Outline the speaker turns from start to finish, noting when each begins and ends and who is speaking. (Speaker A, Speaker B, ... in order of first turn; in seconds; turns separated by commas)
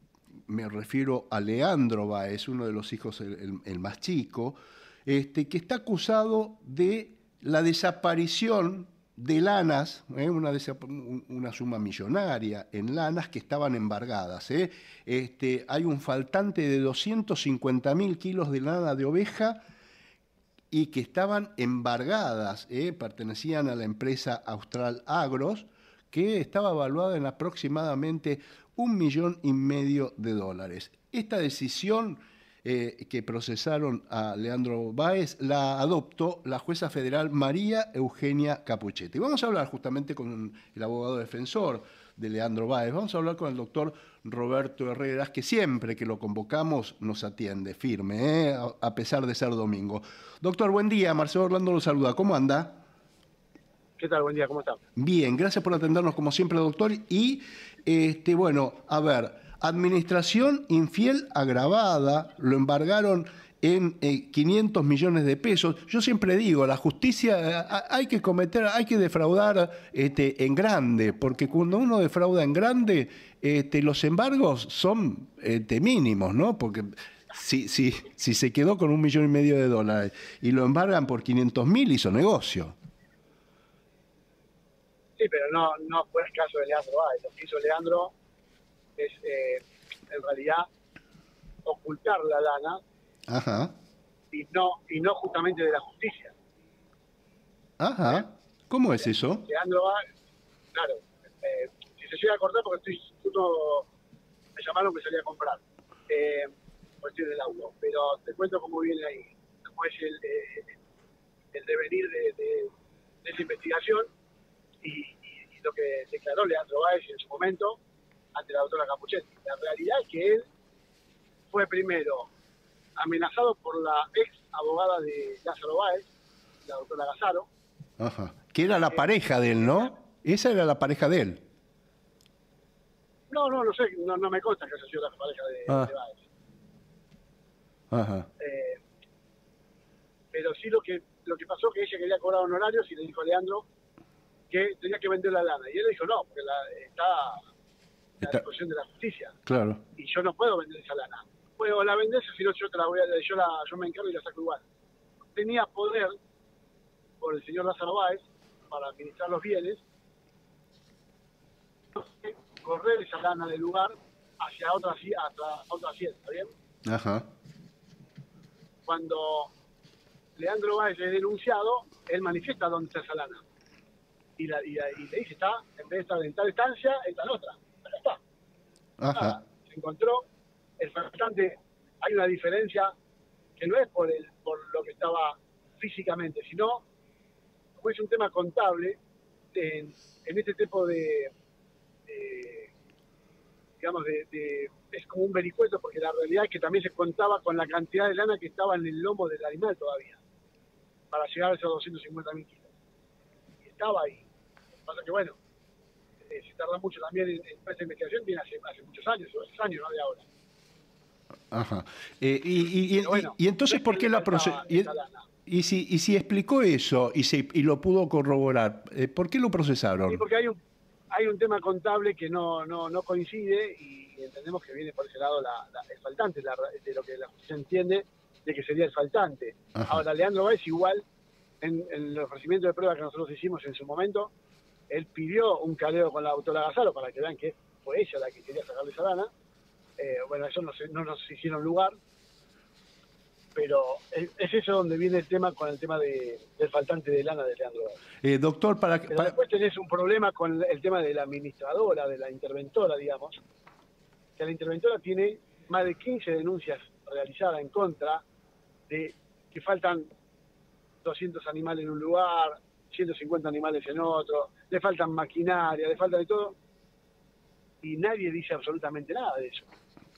Speaker A: 0.5-19.6, Speaker A: 20.7-52.8, Speaker B: 54.0-54.8, Speaker A: 55.0-82.8, Speaker B: 85.2-88.1, Speaker B: 89.0-90.7, Speaker B: 91.6-92.8, Speaker A: 93.3-93.7, Speaker B: 94.3-96.3, Speaker A: 97.8-99.5, Speaker B: 99.4-100.0, Speaker B: 100.7-103.9, Speaker B: 104.5-110.8, Speaker B: 111.5-112.7, Speaker B: 113.2-114.1, Speaker B: 114.8-117.8, Speaker B: 118.3-120.4, Speaker B: 121.5-122.3, Speaker B: 123.0-126.1, Speaker B: 126.7-127.5, Speaker A: 128.0-131.4, Speaker B: 129.6-129.9, Speaker B: 133.3-136.2, Speaker A: 137.9-138.3, Speaker B: 138.4-138.8, Speaker B: 140.3-143.7, Speaker B: 144.5-147.4, Speaker B: 148.2-149.3, Speaker A: 149.5-149.8, Speaker B: 149.9-154.6, Speaker B: 155.3-156.2, Speaker B: 157.2-159.8, Speaker B: 161.9-166.5, Speaker A: 166.8-167.2, Speaker B: 168.8-169.5, Speaker B: 170.3-173.4, Speaker B: 174.4-178.2, Speaker A: 179.0-179.4, Speaker B: 179.1-180.3, Speaker B: 180.8-182.9, Speaker B: 183.6-186.8, Speaker B: 187.8-189.0, Speaker B: 189.5-191.3, Speaker B: 192.1-192.7, Speaker B: 193.8-200.2, Speaker B: 201.1-202.7, Speaker B: 203.6-204.2, Speaker B: 204.8-205.4, Speaker B: 206.3-210.2, Speaker A: 211.5-214.9, Speaker B: 212.9-215.3, Speaker A: 215.4-220.2, Speaker B: 220.1-220.6, Speaker B: 221.1-231.0, Speaker B: 231.6-234.3, Speaker B: 234.9-239.3, Speaker B: 240.0-241.9, Speaker B: 243.5-248.0, Speaker A: 248.2-249.3, Speaker B: 249.1-253.4, Speaker B: 254.4-258.2, Speaker B: 258.9-260.1, Speaker B: 261.0-266.6, Speaker B: 267.8-269.7